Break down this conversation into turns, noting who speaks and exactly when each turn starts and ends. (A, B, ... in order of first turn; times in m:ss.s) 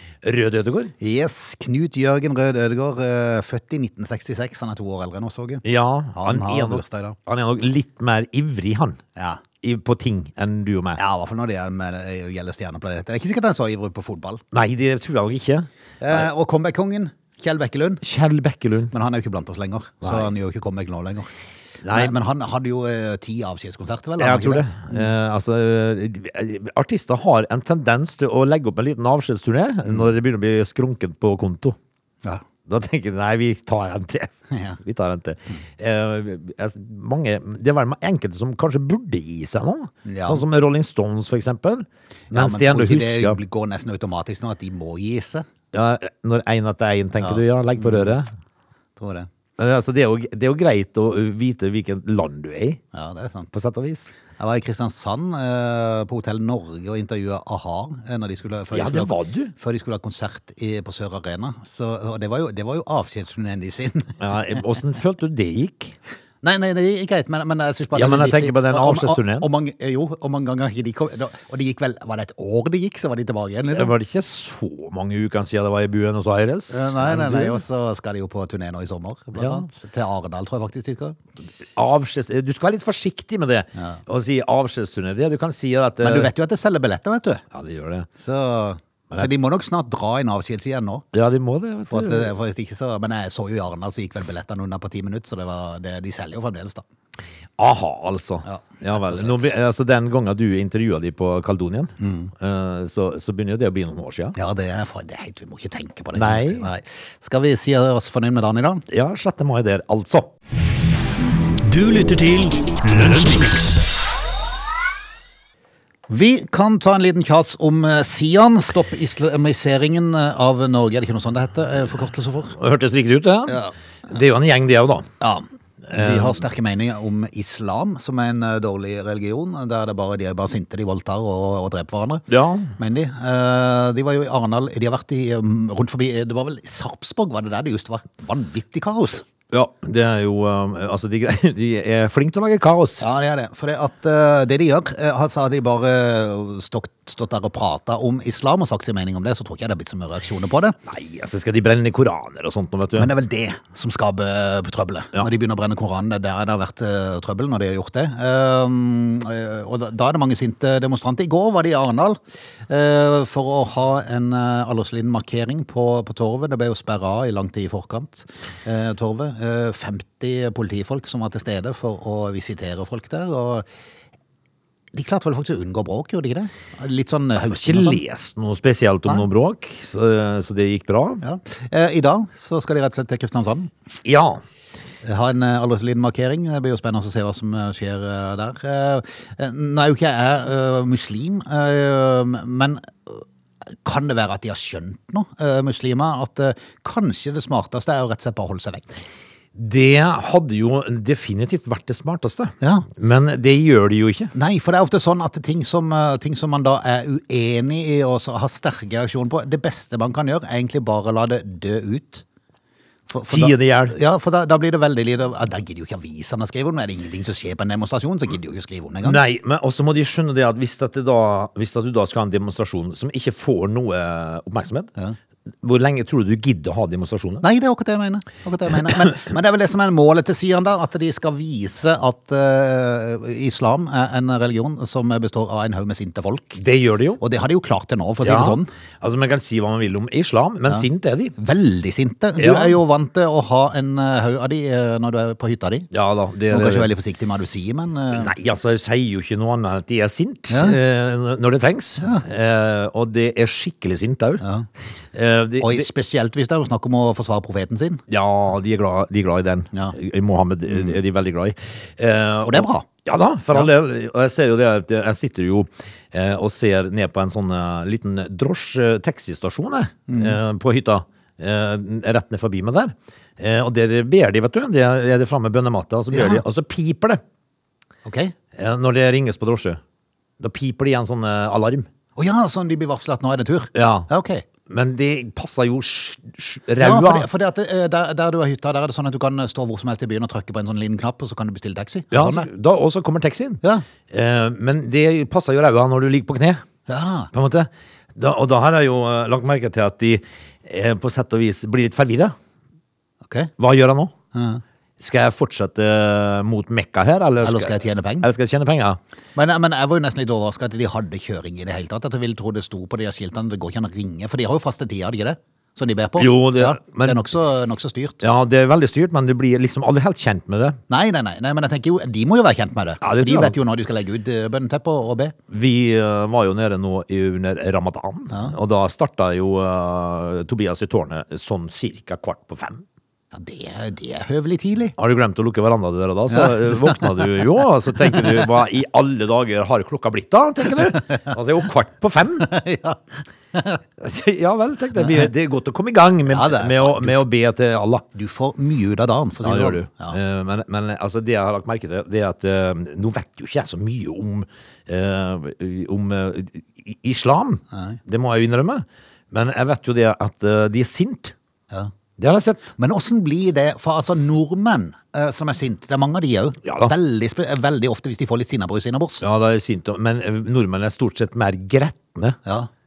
0:00.2-0:00.9 A
0:01.0-0:07.2 B
0:05.6-0:09.0 A
0:09.2-0:09.4 B
0:09.6-0:11.0 A
0:11.0-0:14.4 B
0:14.5-0:16.3 A
0:16.0-0:18.0 B
0:18.0-0:18.9 A
0:18.9-0:21.3 B
0:20.0-0:20.3 A
0:21.8-0:22.1 A
0:21.9-0:25.1 B
0:24.2-0:31.8 A
0:32.7-0:43.4 A
0:34.5-0:34.8 B
0:40.0-0:40.4 B
0:42.3-0:45.5 B
0:45.7-0:48.3 A
0:47.2-0:48.1 B
0:49.0-0:49.3 B
0:49.6-0:52.8 A
0:52.9-0:53.5 B
0:53.5-0:54.1 A
0:54.4-1:04.6 B
0:58.7-0:59.5 A
1:04.2-1:06.0 A
1:06.4-1:13.9 B
1:07.9-1:09.5 A
1:13.7-1:17.6 A
1:16.7-1:21.2 B
1:19.4-1:19.7 A
1:21.8-1:26.3 A
1:26.0-1:27.4 B
1:27.5-1:28.1 A
1:28.2-1:31.0 B
1:31.1-1:32.3 A
1:31.9-1:36.8 B
1:37.6-1:44.4 A
1:38.4-1:39.5 B
1:42.0-1:42.3 B
1:44.4-1:48.8 B
1:46.1-1:46.7 A
1:48.9-1:50.3 A
1:51.6-1:53.8 C
1:56.1-2:02.6 B
2:02.6-2:05.1 A
2:03.5-2:03.7 B
2:05.2-2:12.2 B
2:05.9-2:06.4 A
2:12.3-2:12.7 A
2:12.8-2:19.3 B
2:19.5-2:23.0 A
2:23.0-2:30.8 B
2:30.9-2:33.1 A
2:33.0-2:42.2 B
2:42.7-2:53.7 B
2:54.9-2:58.0 B
2:57.5-3:01.2 A
3:01.2-3:03.7 B
3:04.0-3:04.4 A
3:05.0-3:18.9 B
3:19.6-3:24.3 A
3:22.6-3:22.9 B
3:24.3-3:32.2 B
3:33.1-3:39.2 B
3:33.3-3:34.0 A
3:39.0-3:44.9 A
3:45.6-3:47.4 A
3:47.4-3:56.6 B
3:56.6-3:57.2 A
3:57.2-3:58.7 B
3:58.2-4:01.4 A
4:01.4-4:05.9 B
4:02.4-4:02.8 A
4:05.9-4:06.9 A
4:06.5-4:08.3 B
4:08.1-4:14.4 A
4:10.5-4:10.8 B
4:14.4-4:14.7 B
4:15.1-4:15.9 A
4:15.6-4:18.0 B
4:18.1-4:37.2 A
4:20.7-4:21.0 B
4:22.4-4:22.9 B
4:30.1-4:30.4 B
4:36.1-4:36.4 B
4:38.0-4:38.3 B
4:38.6-4:39.8 A
4:40.4-4:41.9 A
4:42.2-4:44.4 B
4:43.7-4:44.1 A
4:44.7-4:47.3 A
4:46.8-4:52.5 B
4:52.1-4:56.6 A
4:56.9-4:57.3 B
4:57.3-5:02.4 A
5:03.2-5:03.5 B
5:03.6-5:04.1 A
5:04.3-5:04.6 B
5:05.0-5:09.0 A
5:07.4-5:08.3 B
5:09.4-5:18.2 B
5:16.2-5:17.2 A
5:18.2-5:20.8 A
5:20.9-5:25.4 B
5:23.0-5:23.6 A
5:25.5-5:32.8 A
5:28.3-5:28.6 B
5:33.3-5:35.0 B
5:35.0-5:42.5 A
5:36.3-5:38.4 B
5:42.4-5:43.0 B
5:43.5-5:43.8 B
5:44.0-5:48.0 A
5:45.0-5:45.3 B
5:46.3-5:47.2 B
5:48.1-5:50.2 B
5:49.4-6:01.3 A
5:57.7-5:58.0 B
6:02.2-6:02.7 A
6:02.8-6:09.2 B
6:06.6-6:06.9 A
6:09.2-6:12.4 A